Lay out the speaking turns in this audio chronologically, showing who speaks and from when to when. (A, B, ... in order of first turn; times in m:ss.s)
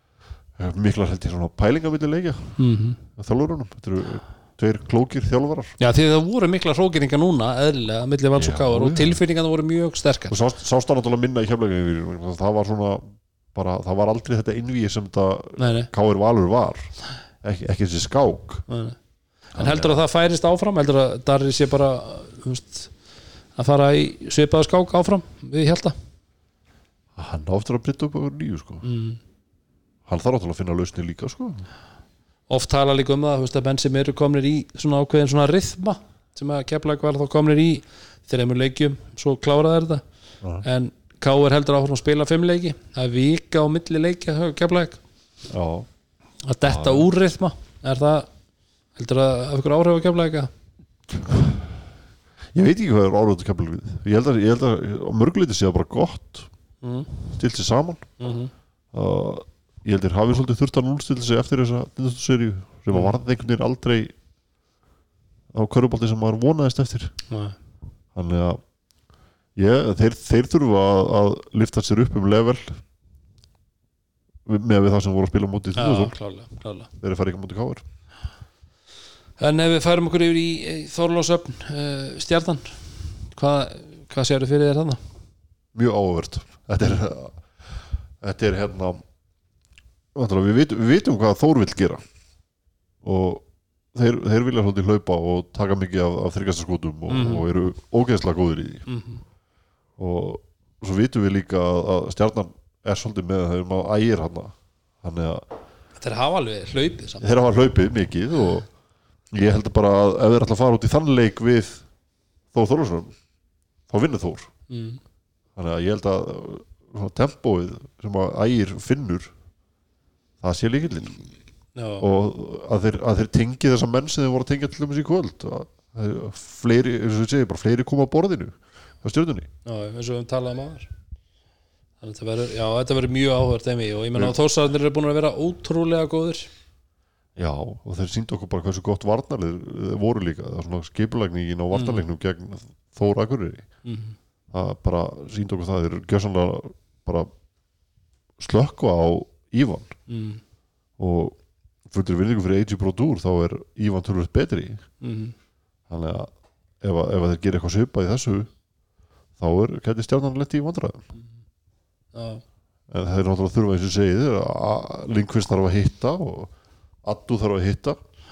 0:00.6-0:02.6 A
0:02.6-0:03.0 B
0:03.2-0:05.7 A
0:05.8-0:10.4 B
0:08.3-0:09.2 A
0:10.3-0:18.6 A
0:15.6-0:15.9 B
0:18.7-0:19.0 B
0:19.5-0:22.9 B
0:19.6-0:20.0 A
0:23.6-0:25.9 B
0:27.2-0:28.8 A
0:28.8-0:29.2 B
0:30.1-0:31.6 A
0:32.5-0:40.0 B
0:40.6-0:45.0 B
0:45.5-0:45.9 A
0:46.5-0:48.3 B
0:46.6-0:47.1 A
0:49.0-0:50.5 B
0:51.1-0:51.7 A
0:52.5-0:56.5 A
0:56.8-0:57.3 B
0:57.4-0:58.1 A
0:58.2-0:58.5 B
0:58.9-1:04.1 A
1:02.9-1:03.2 B
1:05.5-1:07.1 A
1:07.3-1:07.5 B
1:08.1-1:08.6 A
1:09.6-1:12.8 A
1:14.4-1:16.1 A
1:15.8-1:16.9 B
1:17.0-1:17.8 A
1:19.4-1:25.0 B
1:25.7-1:29.0 A
1:30.1-1:32.0 A
1:33.0-1:38.8 A
1:37.1-1:37.4 B
1:38.9-1:39.2 B
1:40.0-1:45.4 A
1:46.0-1:47.3 B
1:47.2-1:48.7 A
1:49.3-1:51.8 A
1:52.5-1:53.1 A
1:53.9-1:54.5 A
1:54.7-1:55.0 B
1:55.6-1:59.3 A
2:00.4-2:01.3 A
2:01.8-2:02.1 B
2:02.0-2:09.5 A
2:09.6-2:10.9 B
2:12.0-2:16.5 B
2:17.4-2:23.7 A
2:21.7-2:22.0 B
2:23.8-2:24.2 B
2:24.5-2:27.3 A
2:28.4-2:29.9 A
2:30.1-2:30.4 B
2:31.0-2:31.4 A
2:31.9-2:34.8 A
2:35.0-2:35.3 B
2:35.9-2:38.5 A
2:39.4-2:41.0 A
2:42.1-2:42.4 B
2:42.9-2:46.5 A
2:47.0-2:48.0 A